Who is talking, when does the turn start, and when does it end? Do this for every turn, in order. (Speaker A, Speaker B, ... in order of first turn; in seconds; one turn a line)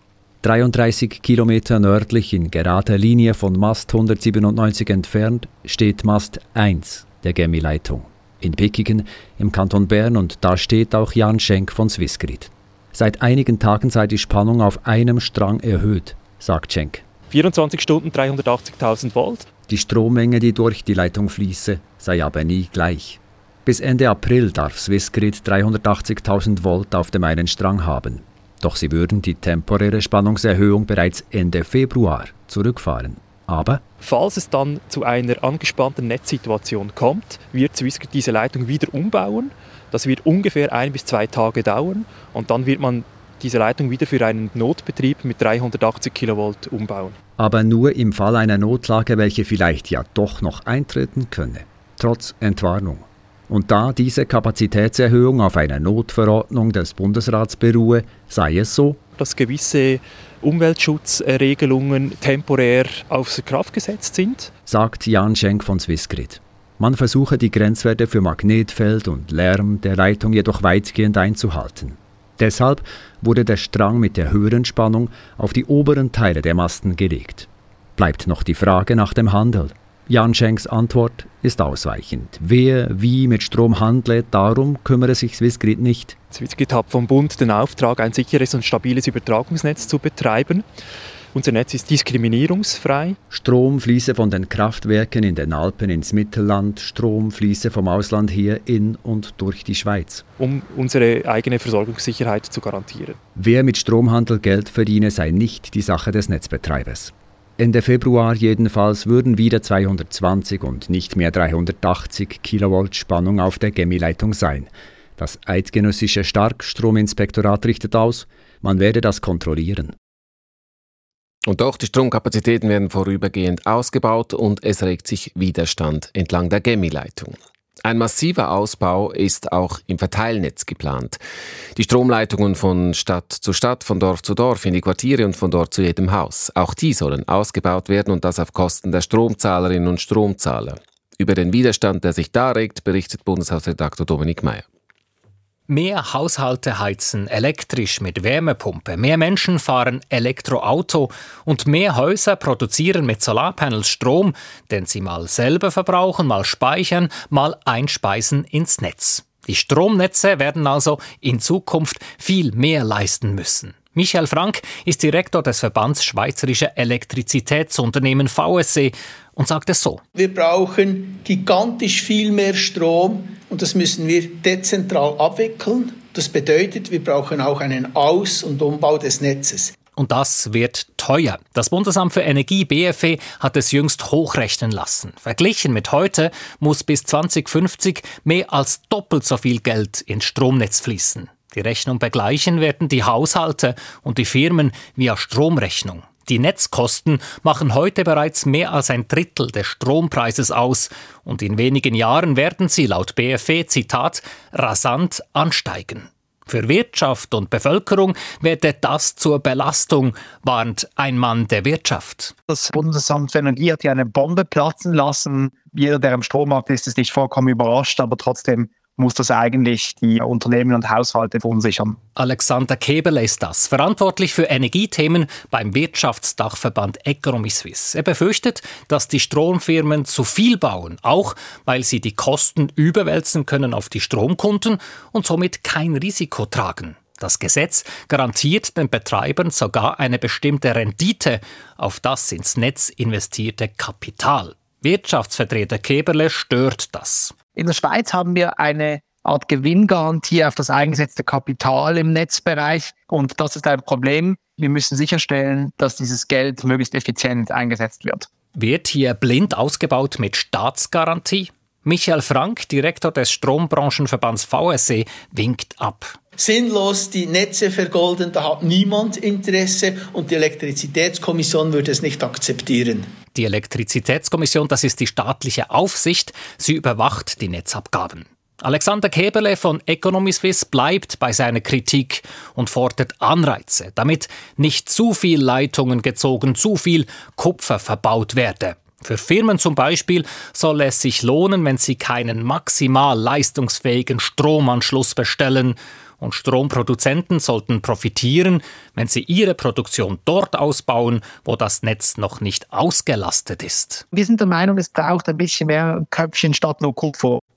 Speaker A: 0.4-17.0
Speaker B: 17.3-19.5
Speaker A: 19.7-33.8
Speaker B: 34.0-47.2
Speaker A: 47.4-59.0
Speaker B: 59.2-64.5
Speaker A: 64.7-86.2
Speaker B: 86.3-90.7
Speaker B: 91.3-93.2
Speaker A: 93.3-100.2
Speaker B: 100.4-103.2
Speaker A: 103.3-120.0
Speaker C: 121.5-131.2
Speaker C: 131.8-144.7
Speaker D: 145.7-170.0
Speaker E: 170.2-179.8
Speaker D: 180.0-212.3
Speaker F: 212.5-222.0
Speaker D: 222.2-247.4
Speaker F: 247.5-258.3
Speaker D: 258.6-266.2
Speaker E: 266.4-273.1
Speaker D: 273.3-304.0
Speaker F: 304.1-307.4